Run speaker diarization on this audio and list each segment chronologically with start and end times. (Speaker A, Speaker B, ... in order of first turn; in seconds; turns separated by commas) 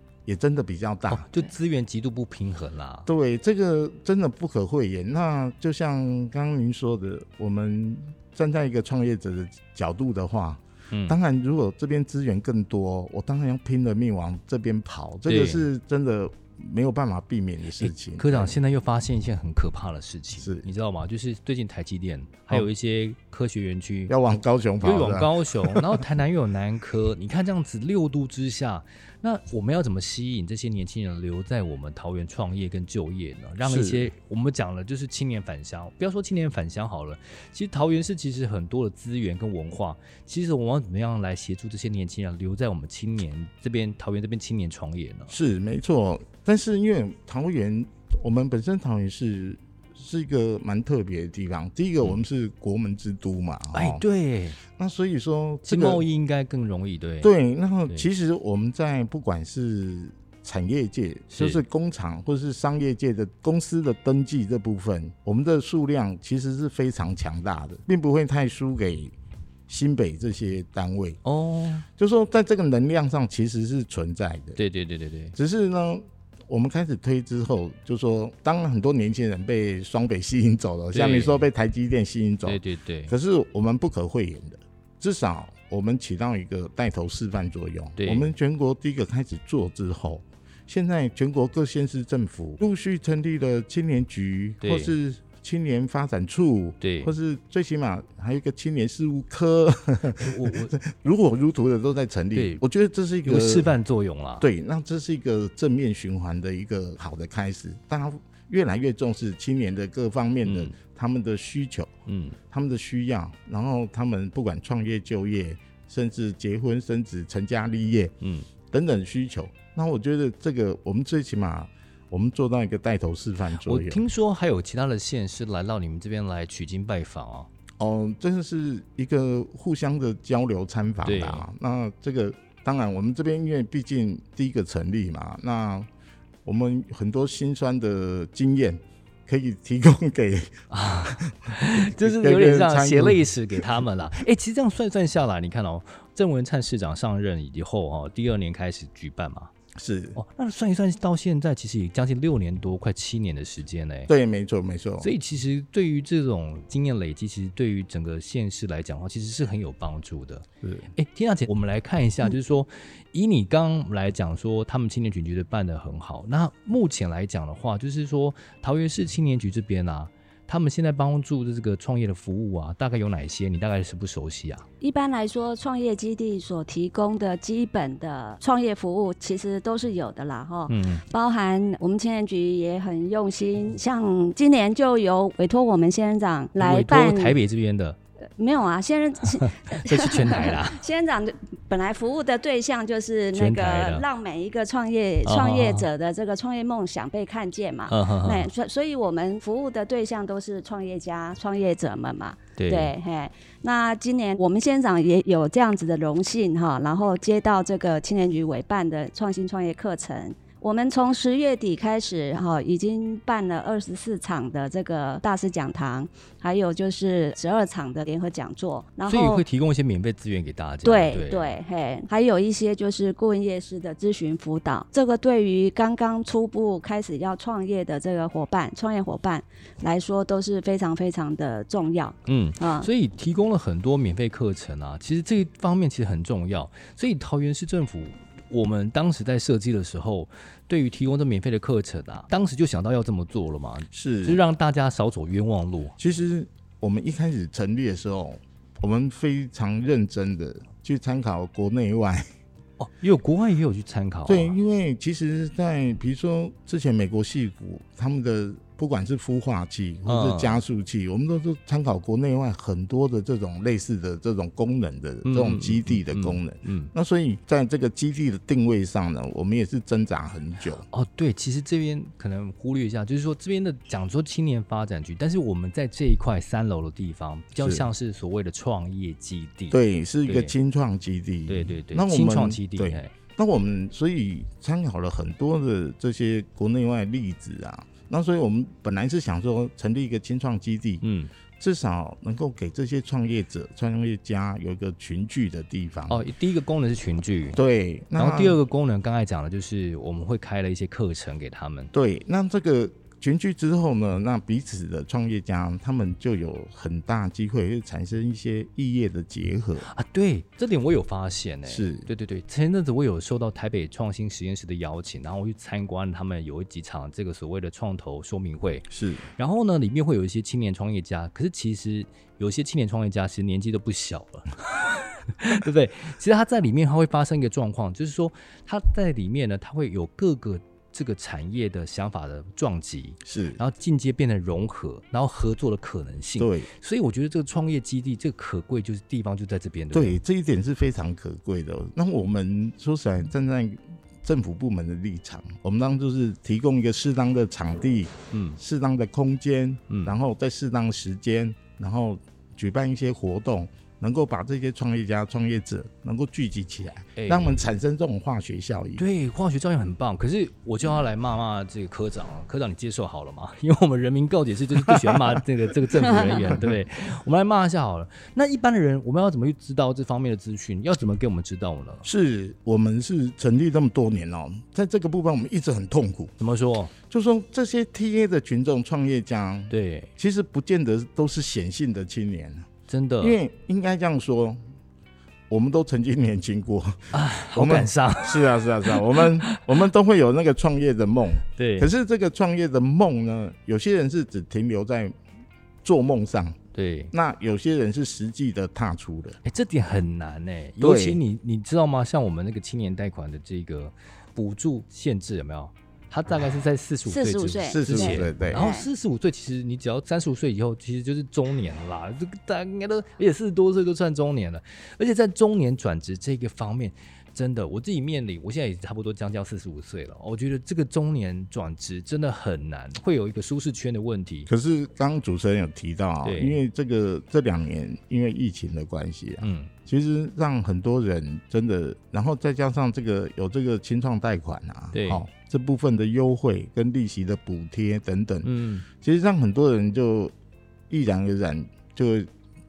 Speaker A: 0.2-1.2, Speaker B: 1.1-3.1, Speaker A: 3.0-18.6, Speaker B: 10.9-11.2, Speaker B: 15.2-15.7, Speaker B: 17.8-24.1, Speaker A: 20.4-20.7, Speaker A: 24.1-26.0, Speaker B: 24.8-45.3, Speaker A: 33.6-34.1, Speaker A: 45.3-54.0, Speaker B: 53.7-54.6, Speaker A: 54.7-56.0, Speaker B: 55.7-57.3, Speaker A: 57.2-69.1, Speaker B: 61.3-61.6, Speaker A: 69.7-71.2, Speaker B: 71.2-71.8, Speaker A: 72.0-74.6, Speaker B: 74.5-75.3, Speaker A: 75.3-103.7, Speaker B: 80.9-81.5, Speaker B: 82.4-83.1, Speaker B: 88.0-88.3, Speaker B: 94.6-94.9, Speaker B: 96.8-97.1, Speaker B: 100.2-100.8, Speaker B: 102.3-102.6, Speaker B: 103.2-104.5, Speaker A: 104.4-111.9, Speaker B: 110.4-110.7, Speaker B: 112.1-112.4, Speaker A: 112.5-118.1, Speaker B: 118.2-118.5, Speaker A: 118.7-124.0, Speaker B: 123.6-127.5, Speaker A: 127.8-135.9, Speaker B: 131.0-131.5, Speaker A: 136.4-143.8, Speaker B: 140.7-149.5, Speaker A: 149.7-150.2, Speaker B: 150.2-154.1, Speaker A: 154.1-155.1, Speaker B: 155.0-174.6, Speaker A: 160.6-160.9, Speaker C: 174.8-187.4, Speaker B: 180.7-181.0, Speaker B: 186.6-188.0, Speaker C: 188.4-219.4, Speaker B: 189.3-190.8, Speaker B: 193.3-194.1, Speaker B: 195.2-195.9, Speaker B: 197.9-198.5, Speaker B: 202.6-202.9, Speaker B: 219.1-221.6, Speaker C: 220.8-232.9, Speaker B: 232.2-246.0, Speaker A: 243.9-244.4, Speaker A: 246.0-252.3, Speaker B: 252.8-254.6, Speaker A: 254.2-270.8, Speaker B: 260.1-260.6, Speaker B: 265.2-266.9, Speaker B: 270.7-280.5, Speaker A: 277.6-277.9, Speaker A: 279.7-291.0, Speaker B: 281.5-283.1, Speaker B: 291.0-291.3, Speaker A: 291.6-296.2, Speaker B: 296.1-297.6, Speaker A: 297.5-298.6, Speaker B: 298.2-301.9, Speaker A: 301.9-309.9, Speaker B: 309.8-340.2, Speaker A: 311.7-312.1, Speaker A: 318.9-319.2, Speaker A: 333.2-333.6, Speaker A: 336.4-336.7, Speaker A: 339.9-359.0, Speaker B: 348.3-348.6, Speaker B: 349.9-350.1, Speaker B: 357.1-357.7, Speaker B: 359.0-372.1, Speaker A: 364.9-365.4, Speaker A: 366.4-366.7, Speaker A: 372.0-376.3, Speaker B: 376.4-376.9, Speaker A: 377.1-382.7, Speaker B: 379.7-380.1, Speaker B: 382.9-383.4, Speaker A: 383.2-384.6, Speaker A: 385.5-395.2, Speaker B: 387.1-389.7, Speaker B: 391.5-391.9, Speaker A: 395.8-396.6, Speaker B: 396.7-397.1, Speaker A: 397.1-399.4, Speaker B: 399.4-424.5, Speaker A: 400.8-401.2, Speaker C: 407.1-408.9, Speaker A: 407.7-408.7, Speaker A: 424.5-440.3, Speaker B: 426.2-426.6, Speaker B: 429.4-429.7, Speaker B: 434.9-435.2, Speaker B: 438.4-438.9, Speaker A: 440.9-442.3